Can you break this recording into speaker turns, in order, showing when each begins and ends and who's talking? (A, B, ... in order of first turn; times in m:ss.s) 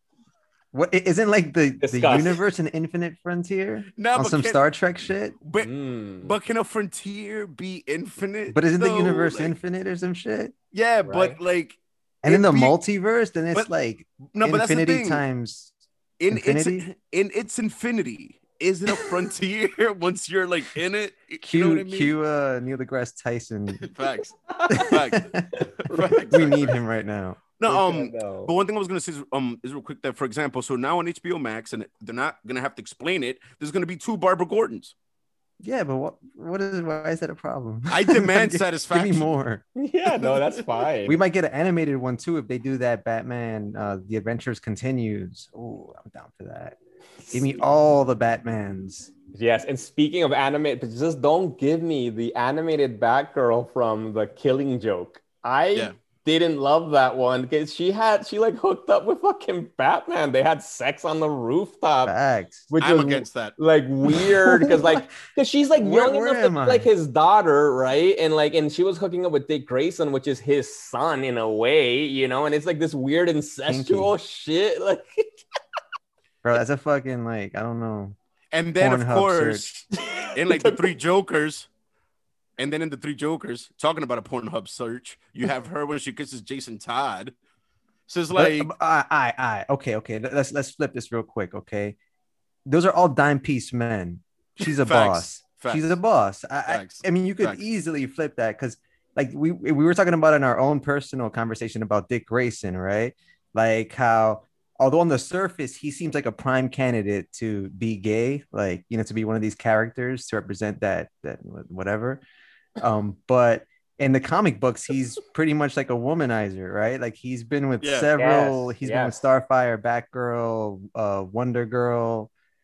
0:00.7-0:05.4 A
0:01.8-0:02.4 B
0:04.0-0:04.6 C
0:05.4-0:09.6 C
0:05.6-0:06.3 B
0:08.5-0:10.5 A
0:10.7-0:12.8 C
0:11.0-0:11.4 B
0:12.2-0:15.7 A
0:14.3-0:15.2 C
0:16.2-0:22.2 C
0:16.3-0:16.9 A
0:21.4-0:23.9 A
0:23.8-0:26.8 C
0:24.5-0:24.9 B
0:24.7-0:25.5 A
0:25.6-0:26.2 B
0:26.3-0:27.4 A
0:27.6-0:34.9 C
0:27.7-0:28.5 B
0:35.6-0:39.6 A
0:37.9-0:39.3 C
0:39.7-0:41.2 B
0:40.1-0:40.6 C
0:41.0-0:46.8 A
0:47.3-0:49.1 A
0:49.3-1:02.1 B
1:02.0-1:02.7 A
1:02.7-1:15.3 B
1:02.8-1:03.6 C
1:04.3-1:05.1 A
1:05.8-1:06.9 A
1:13.7-1:14.1 A
1:16.4-1:18.2 A
1:18.5-1:21.7 C
1:18.8-1:19.6 A
1:19.9-1:20.9 B
1:22.6-1:27.3 C
1:28.1-1:28.7 C
1:28.3-1:32.0 A
1:32.6-1:52.2 A
1:34.6-1:36.0 C
1:36.7-1:37.6 C
1:52.8-2:02.3 A
1:57.8-1:58.1 C
1:58.2-1:59.1 B